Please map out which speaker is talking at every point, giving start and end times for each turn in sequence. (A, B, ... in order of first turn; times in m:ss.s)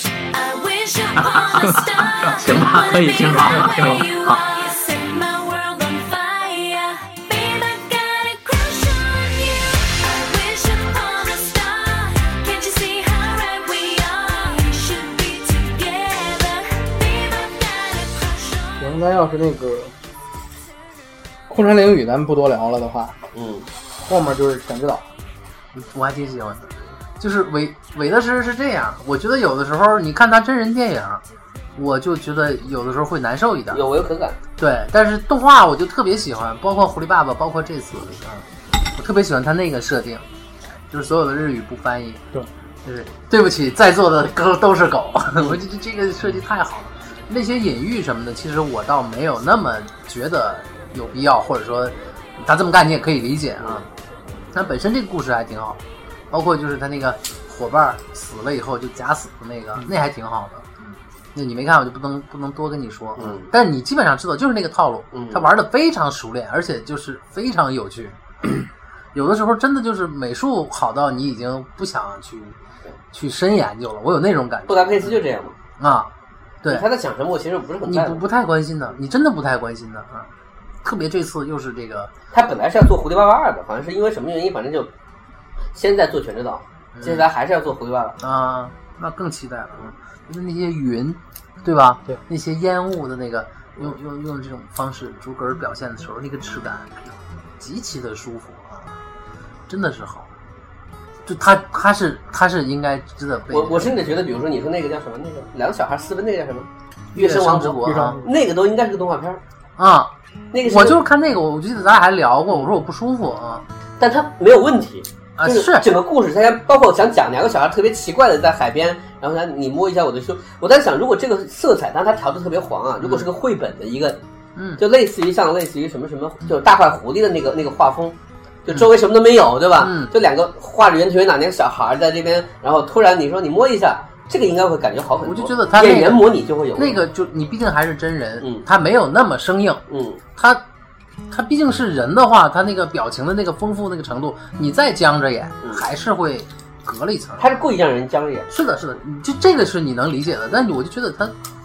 0:00.3-0:19.0 A
0:01.5-0:04.4 B
0:18.8-0:19.9 C
0:21.5-0:23.2 C
0:23.3-0:23.7 D
0:24.1-0:25.1 C
0:25.7-0:31.2 B
0:31.8-0:33.8 B
0:33.7-0:34.4 D
0:34.6-0:40.2 B
0:40.9-0:42.2 B
0:42.8-0:53.9 B
0:53.6-0:53.8 D
0:54.5-1:12.6 B
1:03.2-1:03.5 D
1:05.1-1:05.5 D
1:13.1-1:15.2 B
1:14.7-1:15.6 D
1:15.8-1:16.1 B
1:16.7-1:18.2 D
1:17.9-1:20.3 B
1:20.8-1:22.1 B
1:22.3-1:24.9 D
1:25.7-1:28.2 D
1:27.0-1:27.2 B
1:28.2-1:39.0 B
1:39.7-1:40.3 B
1:41.2-1:43.9 B
1:43.5-1:49.4 D
1:47.1-1:48.2 B
1:47.8-1:48.3 C
1:49.8-1:53.6 B
1:50.5-1:51.0 D
1:54.0-2:04.2 D
1:55.4-1:55.9 B
2:04.8-2:17.0 D
2:09.8-2:10.1 B
2:15.2-2:19.8 B
2:18.4-2:18.7 D
2:19.9-2:20.2 D
2:20.4-2:20.6 B
2:21.3-2:27.6 B
2:27.4-2:28.5 D
2:28.5-2:31.4 B